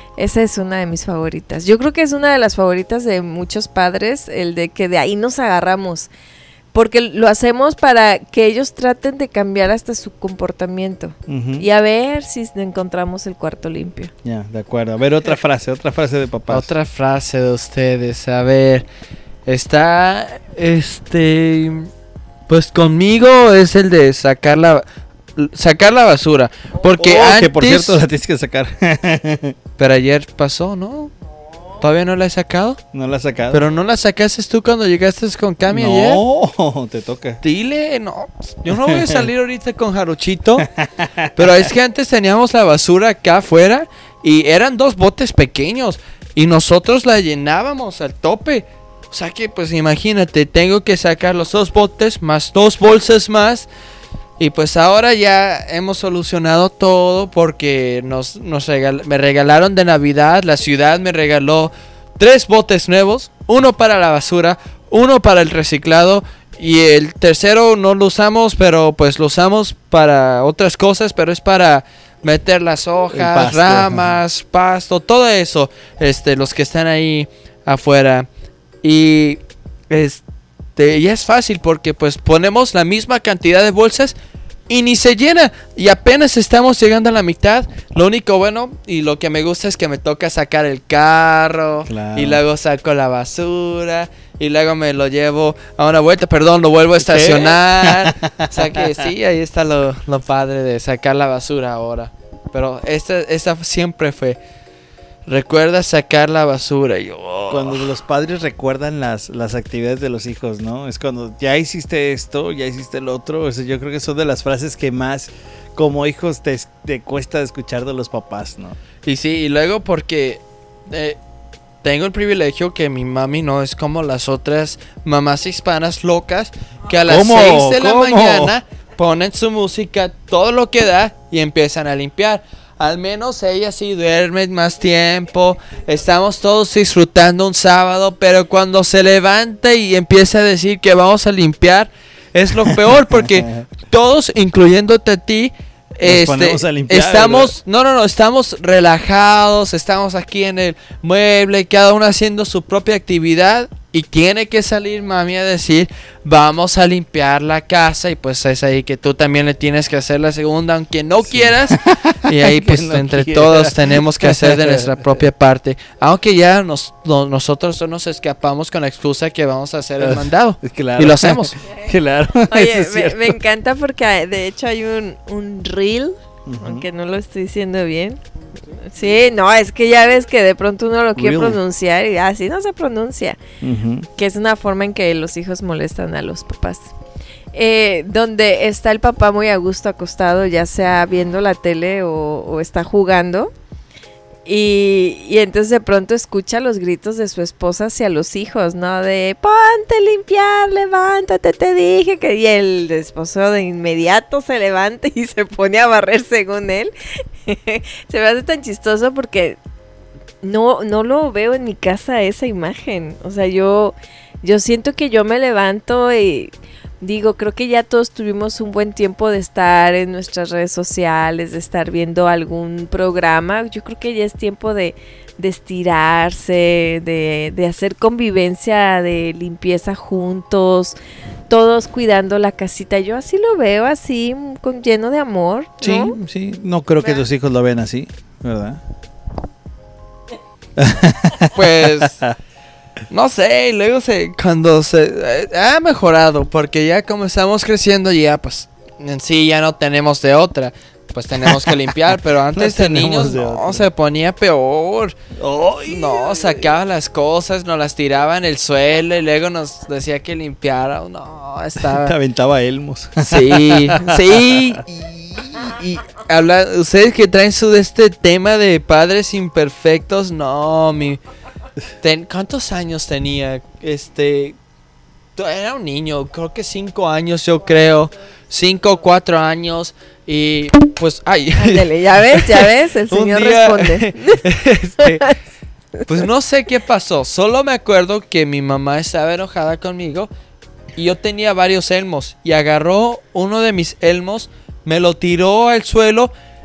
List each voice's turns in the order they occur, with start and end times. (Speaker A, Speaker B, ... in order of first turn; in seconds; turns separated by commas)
Speaker A: 0.2-6.1, Speaker A: 6.7-14.1, Speaker B: 11.3-11.7, Speaker B: 14.2-16.7, Speaker C: 16.5-18.9, Speaker C: 19.5-21.9, Speaker C: 22.5-24.8, Speaker C: 25.4-28.0, Speaker B: 27.0-29.6, Speaker C: 29.8-31.1, Speaker C: 31.8-32.8, Speaker B: 32.9-33.7, Speaker C: 33.5-36.2, Speaker B: 35.7-37.4, Speaker C: 37.4-40.7, Speaker B: 38.7-39.3, Speaker B: 40.6-41.3, Speaker C: 41.4-53.7, Speaker C: 54.4-78.3, Speaker B: 73.1-74.2, Speaker C: 78.8-80.2, Speaker C: 80.8-84.1, Speaker C: 84.7-104.4, Speaker B: 91.8-92.4, Speaker B: 97.0-98.9, Speaker C: 105.3-107.9, Speaker B: 107.5-118.8, Speaker C: 119.0-121.2, Speaker C: 121.8-171.6, Speaker B: 127.0-128.6, Speaker B: 142.7-143.4, Speaker B: 146.0-147.5, Speaker B: 161.3-165.1, Speaker B: 170.0-173.4, Speaker A: 172.5-178.2, Speaker B: 176.5-176.8, Speaker A: 178.8-183.4, Speaker B: 181.2-181.6, Speaker B: 183.6-184.1, Speaker A: 184.2-186.9, Speaker A: 187.5-193.5, Speaker A: 194.5-206.9, Speaker A: 207.5-209.6, Speaker A: 210.4-231.0, Speaker A: 231.5-236.2, Speaker B: 235.8-238.8, Speaker B: 240.8-242.3, Speaker C: 241.5-242.2, Speaker C: 243.1-255.2, Speaker B: 251.4-252.0, Speaker B: 252.5-253.9, Speaker B: 255.4-256.7, Speaker C: 255.9-262.1, Speaker B: 261.8-264.6, Speaker C: 263.2-271.2, Speaker C: 272.0-274.6, Speaker C: 275.4-285.3, Speaker A: 281.6-284.4, Speaker A: 285.0-285.3, Speaker C: 286.1-290.3, Speaker C: 291.0-296.3